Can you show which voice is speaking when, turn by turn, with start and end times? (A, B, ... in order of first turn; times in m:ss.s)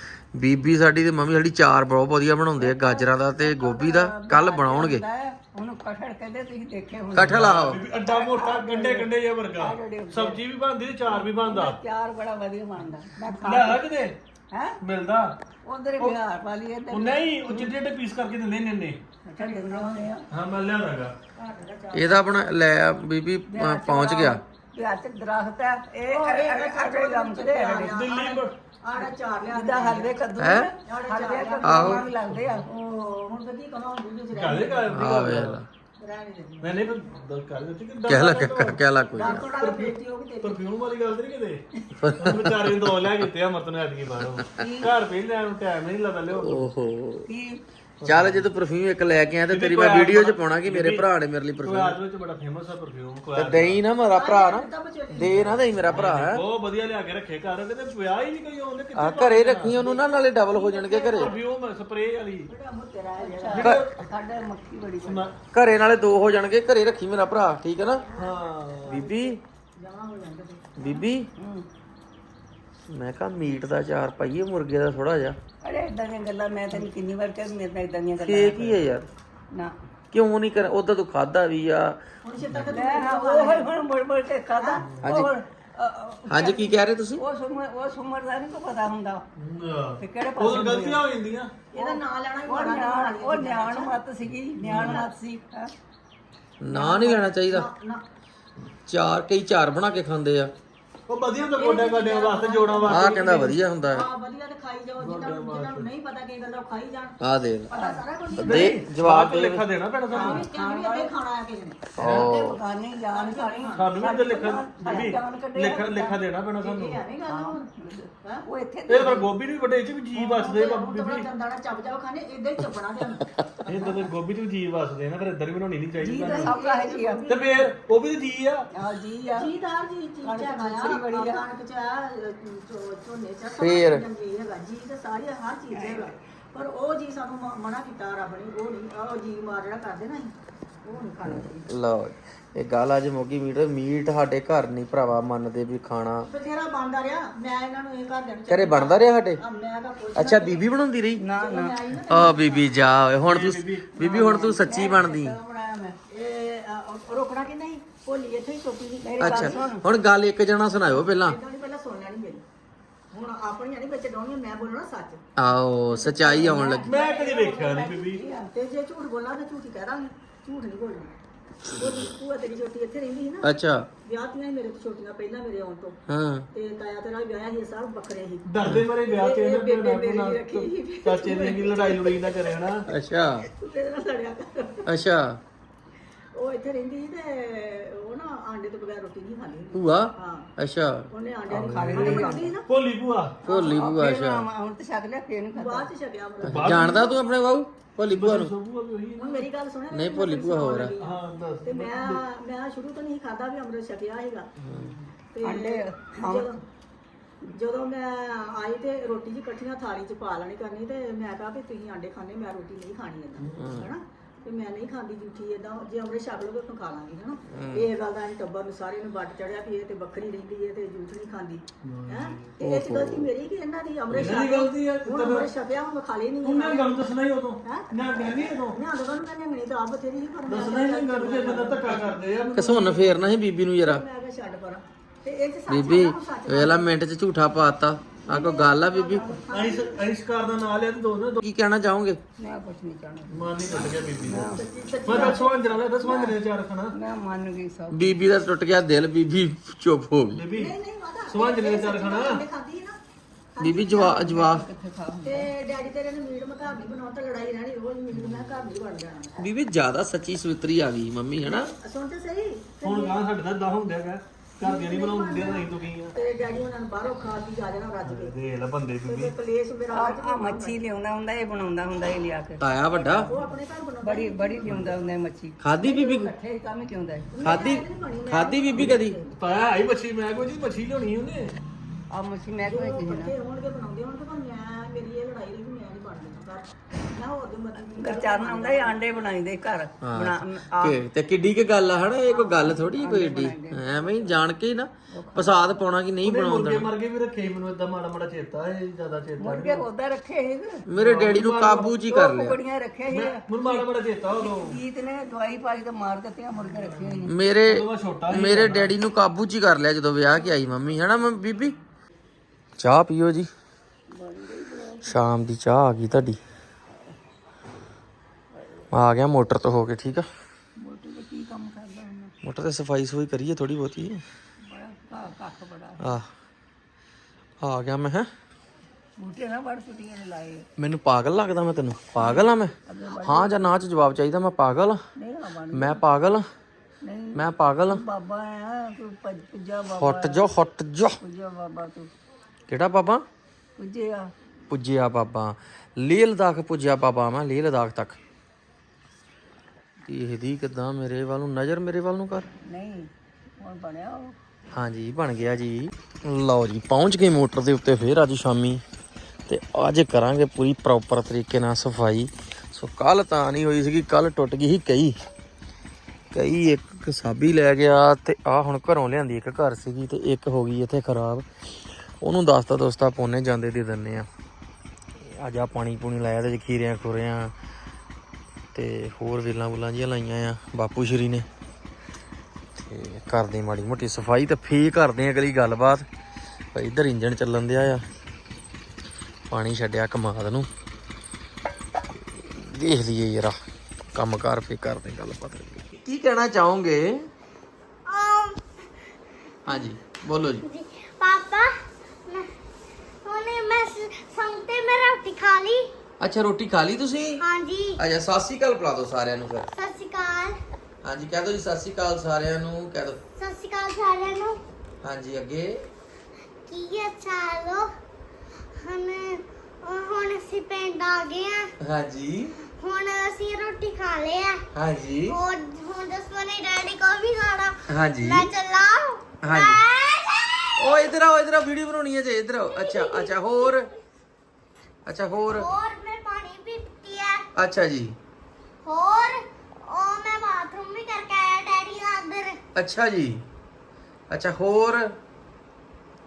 0:00.3-0:05.0 A
0:02.6-0:07.5 B
0:07.1-0:07.8 A
0:07.2-0:11.8 C
0:08.0-0:10.4 B
0:11.0-0:13.8 B
0:13.4-0:14.2 C
0:14.5-0:14.8 B
0:14.8-0:15.4 C
0:15.6-0:17.7 B
0:16.9-0:19.0 C
0:19.2-0:20.3 B
0:19.4-0:20.1 D
0:20.3-0:21.1 C
0:21.4-0:22.4 D
0:21.9-0:24.4 A
0:23.5-0:28.0 B
0:26.1-0:30.2 D
0:27.7-0:28.6 C
0:29.0-0:32.7 B
0:30.4-0:30.7 A
0:30.9-0:32.1 D
0:31.6-0:32.1 A
0:32.3-0:32.6 C
0:32.6-0:35.2 D
0:34.3-0:35.6 C
0:34.9-0:35.7 A
0:36.0-0:37.0 D
0:36.6-0:41.6 C
0:38.1-0:39.5 A
0:39.2-0:40.6 D
0:42.0-0:43.0 A
0:42.1-0:46.7 C
0:44.6-0:45.0 B
0:46.3-0:47.3 A
0:47.3-0:47.6 B
0:48.0-0:48.5 C
0:48.0-0:52.0 A
0:49.5-0:51.1 C
0:51.6-0:53.8 C
0:53.4-0:56.4 A
0:54.0-0:55.6 D
0:55.2-0:59.8 C
0:59.0-1:01.3 A
0:59.8-1:00.2 D
1:00.6-1:01.1 B
1:00.8-1:01.4 D
1:01.2-1:02.5 C
1:02.5-1:03.7 D
1:03.2-1:05.3 B
1:03.5-1:04.0 C
1:05.0-1:05.3 C
1:05.5-1:08.0 A
1:08.0-1:11.0 D
1:08.2-1:09.0 C
1:08.9-1:09.4 A
1:10.8-1:11.3 A
1:11.4-1:11.7 B
1:12.9-1:15.4 A
1:15.6-1:18.9 B
1:18.2-1:19.1 A
1:20.1-1:22.0 A
1:22.2-1:23.7 D
1:22.7-1:29.2 B
1:24.6-1:24.9 D
1:25.0-1:25.3 A
1:26.3-1:27.2 A
1:29.4-1:31.6 C
1:30.0-1:31.0 B
1:31.7-1:34.0 D
1:31.8-1:35.7 B
1:34.6-1:35.0 C
1:34.7-1:35.1 D
1:36.6-1:37.7 A
1:36.7-1:38.0 D
1:38.9-1:40.5 A
1:41.1-1:43.6 C
1:41.6-1:47.2 D
1:42.9-1:44.1 A
1:45.0-1:45.9 C
1:47.2-1:47.7 A
1:47.7-1:48.9 D
1:47.7-1:48.0 B
1:48.4-1:49.7 A
1:48.4-1:50.5 C
1:50.1-1:51.9 D
1:50.1-1:51.1 B
1:52.0-1:52.6 A
1:52.0-1:56.2 B
1:52.0-1:52.3 C
1:53.1-1:55.2 D
1:53.8-1:57.0 C
1:56.6-1:57.6 D
1:57.2-1:59.3 B
1:58.9-2:01.3 C
2:00.1-2:03.3 D
2:03.7-2:06.6 C
2:06.0-2:07.3 B
2:06.0-2:07.8 D
2:07.3-2:08.7 C
2:08.8-2:09.5 B
2:09.3-2:21.7 D
2:10.2-2:11.5 B
2:13.5-2:14.0 A
2:15.7-2:16.2 B
2:21.2-2:26.3 A
2:26.3-2:30.7 D
2:28.5-2:29.4 A
2:30.2-2:31.3 A
2:31.2-2:31.8 B
2:31.3-2:32.8 D
2:32.1-2:35.4 A
2:33.2-2:34.0 C
2:34.0-2:35.4 B
2:34.0-2:39.7 D
2:39.0-2:39.8 B
2:39.2-2:41.4 A
2:41.0-2:42.4 D
2:43.1-2:45.2 D
2:45.4-2:46.9 A
2:45.9-2:51.2 D
2:46.3-2:46.6 B
2:46.8-2:48.2 C
2:48.0-2:48.5 B
2:51.7-2:56.0 D
2:53.4-2:53.9 A
2:56.1-2:56.5 A
2:56.5-3:02.7 D
2:58.4-3:02.9 C
3:02.9-3:03.5 A
3:03.6-3:04.9 D
3:04.8-3:05.4 A
3:06.4-3:10.5 D
3:09.7-3:12.2 A
3:11.1-3:12.7 D
3:11.5-3:12.6 B
3:11.7-3:13.4 C
3:13.4-3:13.9 D
3:13.5-3:14.5 A
3:13.5-3:15.9 B
3:15.6-3:17.2 D
3:16.4-3:18.5 A
3:16.4-3:17.1 C
3:18.1-3:19.5 C
3:19.2-3:24.5 D
3:19.9-3:20.9 A
3:21.0-3:22.2 C
3:24.6-3:24.9 A
3:25.3-3:26.6 D
3:25.4-3:26.5 B
3:27.5-3:47.1 D
3:33.6-3:33.9 A
3:37.5-3:37.9 A
3:41.8-3:42.5 C
3:42.6-3:43.3 A
3:44.1-3:45.5 C
3:46.4-3:48.8 C
3:47.6-3:53.2 D
3:50.5-3:53.2 C
3:52.5-3:54.0 A
3:53.8-3:57.0 D
3:55.7-3:59.4 A
3:58.3-4:00.0 D
3:59.5-4:01.4 C
4:01.4-4:02.2 A
4:02.4-4:05.4 B
4:03.3-4:07.0 C
4:04.5-4:05.8 D
4:06.0-4:06.4 B
4:06.9-4:08.3 B
4:07.9-4:10.4 A
4:10.3-4:10.8 C
4:10.5-4:13.0 D
4:11.3-4:12.4 C
4:13.6-4:14.4 D
4:13.6-4:14.7 A
4:13.8-4:15.5 B
4:15.2-4:19.4 D
4:19.4-4:21.7 A
4:21.4-4:23.2 D
4:22.8-4:26.2 C
4:24.6-4:28.4 D
4:28.0-4:29.3 C
4:29.0-4:30.8 D
4:29.9-4:32.6 B
4:32.6-4:33.3 A
4:32.9-4:35.0 D
4:34.0-4:37.4 B
4:35.6-4:36.3 A
4:37.3-4:39.4 D
4:37.4-4:39.2 A
4:38.9-4:41.6 C
4:42.1-4:43.4 B
4:42.6-4:49.2 D
4:47.8-4:51.0 B
4:50.0-4:56.9 A
4:52.3-4:54.4 B
4:55.1-4:55.8 B
4:56.2-4:59.9 C
4:59.4-5:00.9 B
5:00.9-5:02.6 A
5:00.9-5:02.0 C
5:02.1-5:07.3 B
5:03.1-5:04.8 C
5:07.3-5:11.8 A
5:07.6-5:08.9 C
5:12.8-5:13.5 A
5:14.1-5:15.2 B
5:15.0-5:16.4 A
5:18.6-5:18.8 B
5:18.9-5:20.3 A
5:20.8-5:22.4 B
5:22.4-5:24.2 A
5:24.6-5:26.1 B
5:26.0-5:26.3 A
5:27.6-5:28.3 A
5:29.2-5:30.7 B
5:30.8-5:35.0 A
5:32.2-5:33.7 B
5:35.2-5:36.0 B
5:35.7-5:36.5 A
5:37.0-5:40.7 B
5:37.3-5:38.0 A
5:40.0-5:41.2 A
5:41.2-5:42.1 B
5:42.7-5:43.3 A
5:43.8-5:44.3 B
5:44.7-5:48.2 A
5:50.0-5:52.5 A
5:52.6-5:54.4 B
5:54.7-5:58.8 A
5:59.5-6:05.2 A
6:06.3-6:11.5 A
6:12.2-6:14.3 A
6:15.2-6:17.5 A
6:18.7-6:21.5 A
6:22.8-6:26.1 A
6:26.7-6:28.0 A
6:29.5-6:30.7 A
6:32.1-6:33.6 A
6:34.1-6:37.3 A
6:38.1-6:38.6 E
6:39.7-6:40.6 A
6:40.6-6:42.5 E
6:43.2-6:45.9 E
6:46.2-6:47.4 A
6:47.4-6:48.0 E
6:48.0-6:49.7 A
6:49.7-6:50.6 E
6:51.0-6:53.2 A
6:53.4-6:54.6 E
6:55.0-6:55.9 A
6:56.7-6:57.9 E
6:58.8-7:01.7 E
7:01.8-7:02.6 A
7:02.7-7:04.7 E
7:04.7-7:05.4 A
7:05.3-7:11.0 E
7:07.9-7:08.5 A
7:09.4-7:09.8 A
7:10.8-7:13.9 A
7:12.7-7:13.9 E
7:15.1-7:15.7 A
7:15.5-7:17.5 E
7:17.6-7:18.2 A
7:18.8-7:22.6 E
7:22.8-7:23.5 A
7:24.3-7:25.2 A